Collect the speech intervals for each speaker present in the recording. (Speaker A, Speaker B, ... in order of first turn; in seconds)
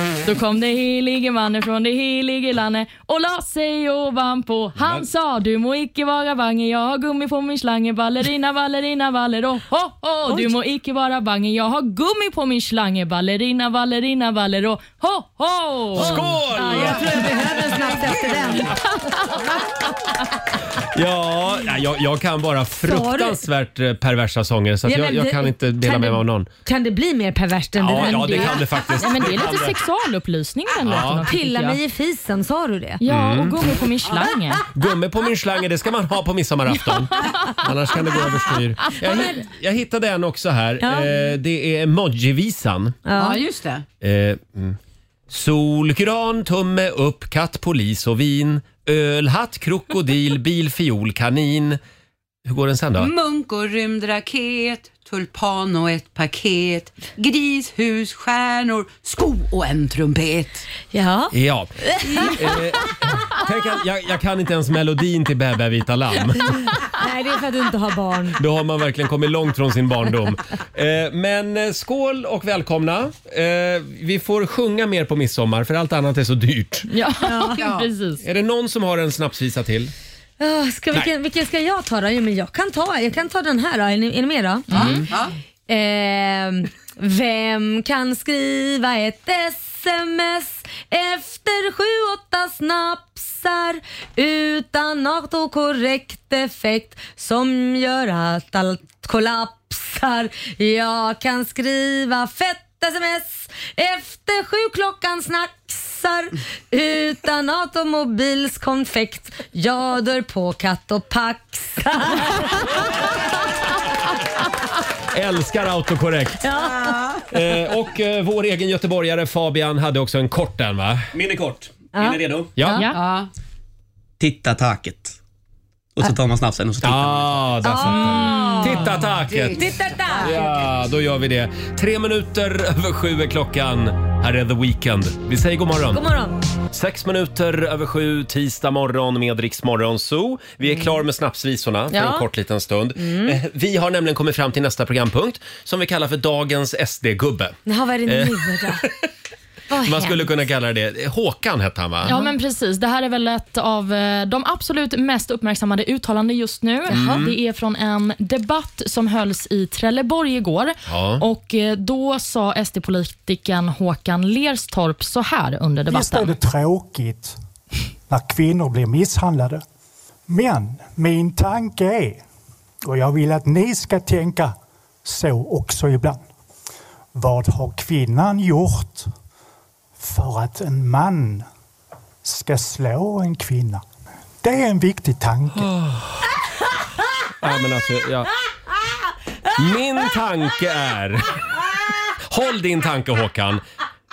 Speaker A: 0.2-16.3, 18.8-19.3, 28.0-31.8, 33.0-34.6, 76.9-78.2, 84.7-85.0, 152.1-166.4
Speaker B: 4.8-5.0, 15.9-18.7, 20.8-26.5, 27.8-29.8, 30.8-31.3, 33.1-33.6, 34.7-43.0, 44.0-44.8, 45.3-51.8, 52.5-53.1, 61.3-66.7, 68.4-76.9, 78.2-79.9, 115.1-116.5, 117.3-121.1, 122.6-122.9, 126.8-129.7, 130.2-136.0, 136.7-148.9, 149.8-152.2, 156.9-157.3, 160.9-161.2, 185.6-186.3, 187.4-188.3, 189.6-191.4, 192.2-193.6
Speaker C: 15.9-18.8, 22.8-23.4, 24.9-28.6, 31.2-33.0, 39.0-39.4, 40.8-41.1, 43.1-43.4, 60.9-62.6, 66.8-68.4, 77.3-77.5, 80.4-85.0, 85.7-112.7, 116.4-117.2, 121.9-122.8, 127.6-128.9, 129.5-130.5, 135.9-136.4, 141.9-142.3, 143.0-143.4, 147.7-148.9, 149.7-150.3, 156.9-157.2
Speaker D: 43.1-43.9, 53.0-60.7, 77.3-77.9, 84.7-85.3, 116.7-117.2, 122.9-123.3, 128.5-130.5
Speaker E: 121.1-122.6, 124.2-125.2, 126.0-127.5
Speaker F: 165.9-167.4, 168.1-169.6, 170.3-172.2, 172.8-176.2, 177.2-179.1, 180.0-181.5, 182.2-183.8, 184.4-185.7